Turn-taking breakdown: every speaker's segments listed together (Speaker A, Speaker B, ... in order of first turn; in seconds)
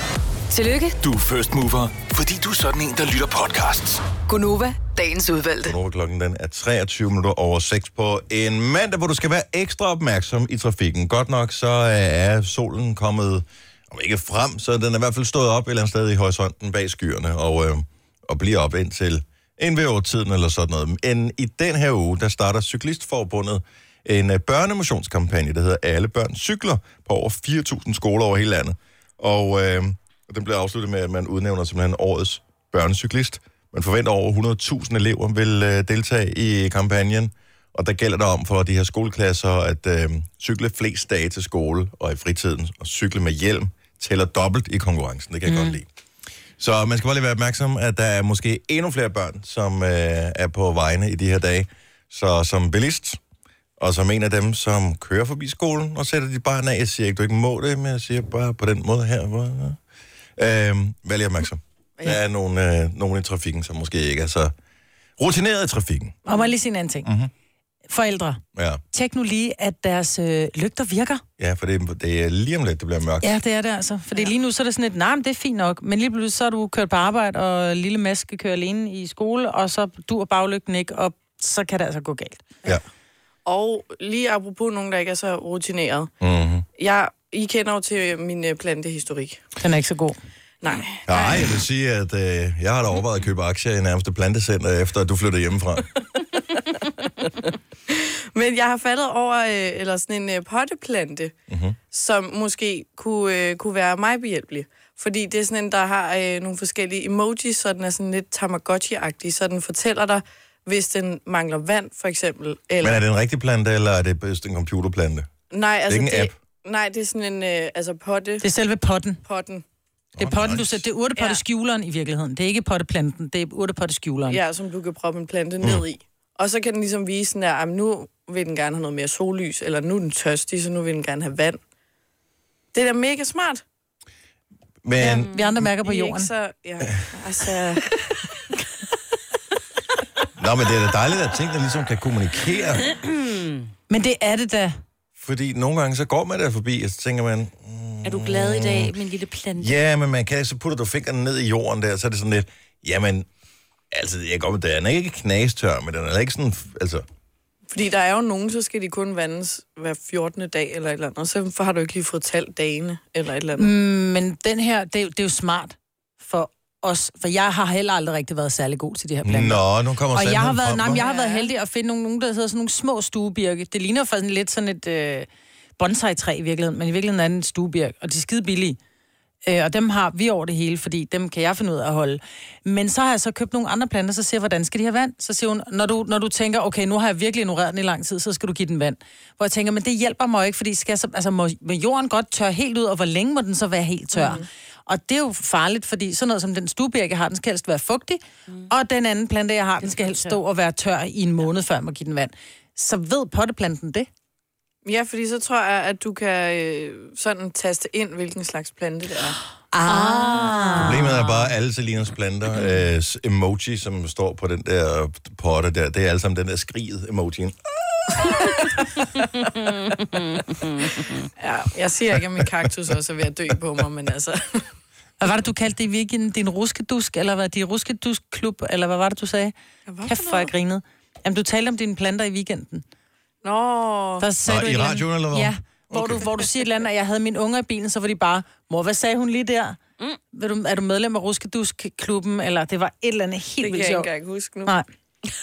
Speaker A: 0.5-0.9, 4.2-5.8
Speaker B: 1.0-4.0
Speaker C: 5.6-45.9, 46.6-53.2, 53.8-59.8, 60.4-64.5, 65.2-66.2, 67.0-67.3, 68.5-68.8, 71.4-73.3, 86.2-86.6, 91.1-95.9, 101.5-101.8, 112.8-115.3, 115.9-116.3, 120.2-120.8, 134.8-135.3, 140.4-142.9, 145.2-148.9, 149.6-153.3, 153.9-157.0, 169.2-171.0, 210.8-217.6, 234.4-236.3
Speaker D: 66.2-66.5, 83.5-86.1, 86.8-89.4, 90.6-91.5, 97.4-101.3, 101.9-113.0, 115.5-118.5, 119.2-119.6, 124.3-131.6, 132.7-133.6, 135.8-138.2, 157.7-163.7, 170.9-171.5, 194.1-194.5, 204.8-209.4, 221.4-224.7, 229.8-230.5, 233.4-234.3, 243.6-244.7
Speaker E: 66.3-67.1, 67.9-68.4, 68.9-71.2, 73.2-82.6, 89.6-90.2, 118.4-119.2, 120.2-124.4, 135.0-136.3, 143.9-144.8, 163.6-178.8, 179.4-204.1, 209.7-211.3, 225.2-232.8, 234.2-239.8, 240.3-244.1
Speaker F: 142.9-143.7, 148.0-149.7, 199.8-200.4, 209.9-211.1, 219.5-221.3